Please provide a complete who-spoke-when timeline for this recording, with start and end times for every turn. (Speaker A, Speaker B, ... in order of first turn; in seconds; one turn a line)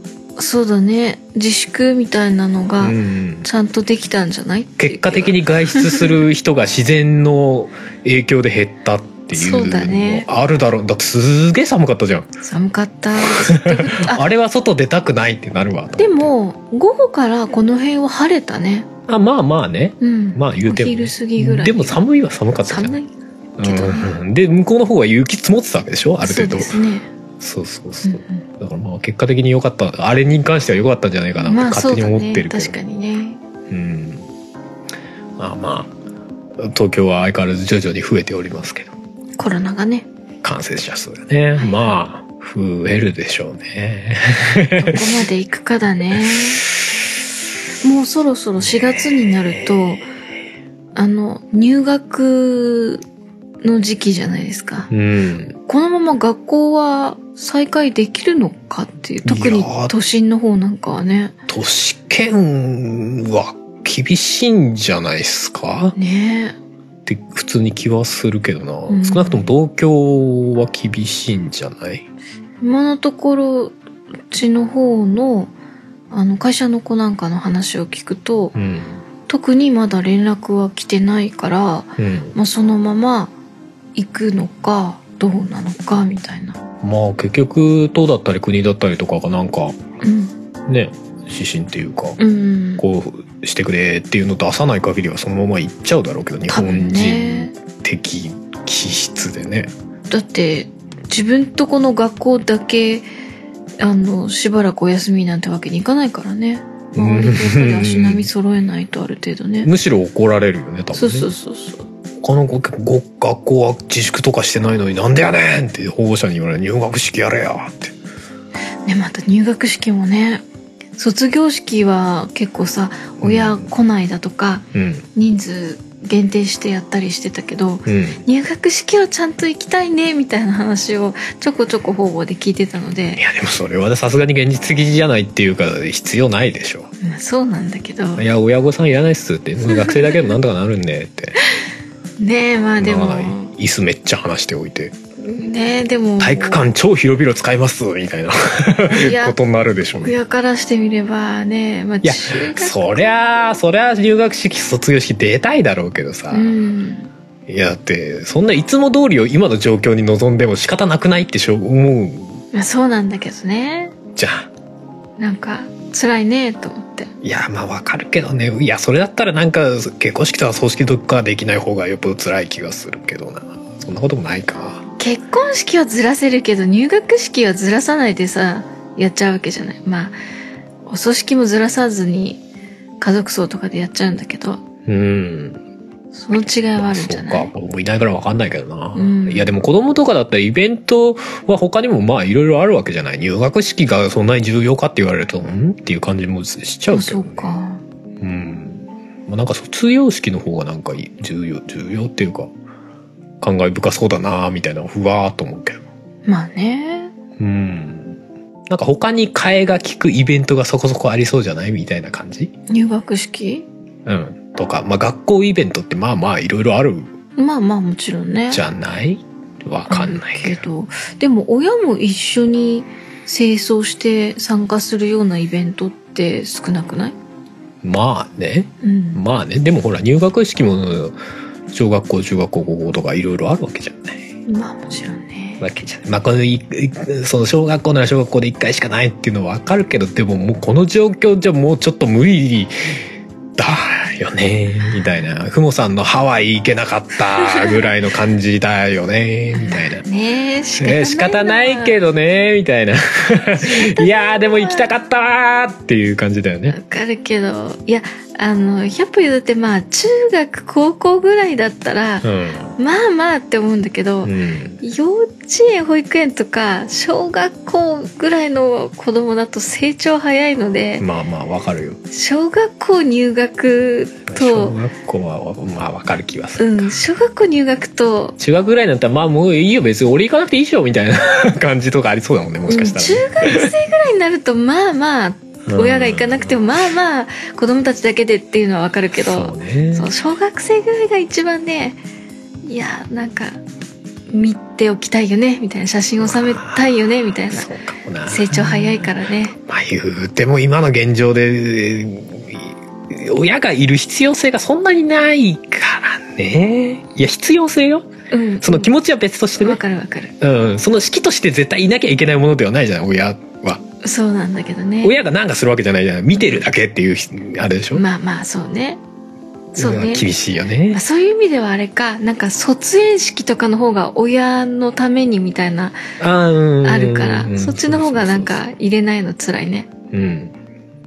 Speaker A: 0.4-6.2
Speaker B: 2.8-3.5
Speaker B: 4.8-12.3
Speaker A: 9.3-10.3
Speaker A: 12.4-14.2
Speaker B: 13.2-16.3
Speaker A: 16.0-18.9
Speaker B: 19.1-23.0
Speaker A: 20.0-22.0
Speaker A: 22.7-23.1
Speaker B: 23.6-26.8
Speaker A: 23.6-24.1
Speaker A: 26.2-27.1
Speaker B: 27.4-32.8
Speaker A: 28.1-28.4
Speaker A: 31.4-33.4
Speaker B: 33.7-34.3
Speaker B: 35.4-35.9
Speaker B: 36.6-38.9
Speaker A: 39.4-40.1
Speaker B: 40.4-45.1
Speaker A: 41.6-42.0
Speaker A: 44.8-46.6
Speaker A: 47.8-50.1
Speaker B: 49.5-49.9
Speaker A: 51.0-53.0
Speaker A: 53.6-54.9
Speaker B: 54.9-55.6
Speaker A: 55.7-61.4
Speaker B: 59.2-60.0
Speaker B: 61.5-66.0
Speaker A: 66.0-66.6
Speaker B: 67.1-72.1
Speaker A: 68.9-69.5
Speaker A: 72.6-73.8
Speaker A: 74.3-75.5
Speaker A: 76.1-78.6
Speaker B: 78.5-79.0
Speaker A: 79.3-83.3
Speaker B: 82.0-82.3
Speaker A: 84.0-86.6
Speaker B: 86.8-89.8
Speaker A: 90.0-90.3
Speaker B: 90.7-92.2
Speaker A: 92.2-92.8
Speaker B: 92.8-99.7
Speaker A: 96.5-97.5
Speaker A: 100.1-103.1
Speaker A: 103.8-109.7
Speaker B: 107.0-108.3
Speaker B: 109.6-111.3
Speaker A: 110.9-111.9
Speaker B: 112.2-117.9
Speaker A: 118.8-120.4
Speaker A: 121.0-133.2
Speaker B: 123.2-123.7
Speaker B: 124.7-125.1
Speaker B: 127.9-128.2
Speaker B: 133.2-136.9
Speaker A: 137.0-138.3
Speaker B: 138.2-141.4
Speaker A: 139.7-140.3
Speaker A: 142.2-143.5
Speaker B: 142.8-145.0
Speaker A: 145.2-146.6
Speaker B: 146.2-150.1
Speaker A: 148.9-149.4
Speaker A: 150.0-153.1
Speaker B: 152.0-156.5
Speaker A: 156.3-157.1
Speaker B: 157.5-162.4
Speaker A: 162.5-163.9
Speaker B: 164.2-164.5
Speaker A: 165.2-167.1
Speaker B: 167.2-174.8
Speaker A: 175.0-180.2
Speaker A: 180.8-182.4
Speaker A: 183.0-184.6
Speaker B: 184.9-185.6
Speaker A: 186.1-187.5
Speaker B: 186.3-197.5
Speaker A: 188.9-189.5
Speaker A: 196.9-197.8
Speaker B: 198.2-202.5
Speaker B: 203.4-205.8
Speaker A: 206.2-207.1
Speaker B: 207.4-212.5
Speaker A: 212.7-213.7
Speaker B: 214.1-217.1
Speaker A: 217.4-218.6
Speaker B: 218.5-220.6
Speaker A: 219.9-227.2
Speaker B: 227.8-231.2
Speaker A: 228.8-229.2
Speaker B: 231.7-234.3
Speaker A: 234.5-235.6
Speaker B: 235.6-243.0
Speaker B: 243.6-250.0
Speaker A: 247.5-247.9
Speaker A: 249.5-252.0
Speaker B: 250.8-256.8
Speaker A: 253.6-254.9
Speaker A: 256.7-262.3
Speaker B: 262.2-262.8
Speaker A: 262.8-271.1
Speaker B: 264.2-264.8
Speaker B: 271.0-272.0
Speaker A: 272.1-274.8
Speaker B: 274.3-276.9
Speaker A: 276.6-278.4
Speaker B: 278.4-283.7
Speaker A: 282.7-292.0
Speaker B: 285.7-286.6
Speaker B: 289.2-290.1
Speaker A: 292.6-293.6
Speaker A: 294.3-297.7
Speaker B: 296.2-296.9
Speaker B: 297.5-299.1
Speaker A: 298.3-299.6
Speaker B: 299.6-308.1
Speaker A: 308.3-308.9
Speaker B: 308.6-309.8
Speaker A: 309.6-310.4
Speaker B: 310.4-313.8
Speaker A: 314.0-315.1
Speaker B: 315.0-318.1
Speaker A: 316.4-316.6
Speaker A: 317.9-319.0
Speaker B: 319.7-321.0
Speaker A: 319.8-320.3
Speaker A: 320.9-326.0
Speaker B: 326.2-328.6
Speaker A: 326.8-329.9
Speaker B: 330.1-330.5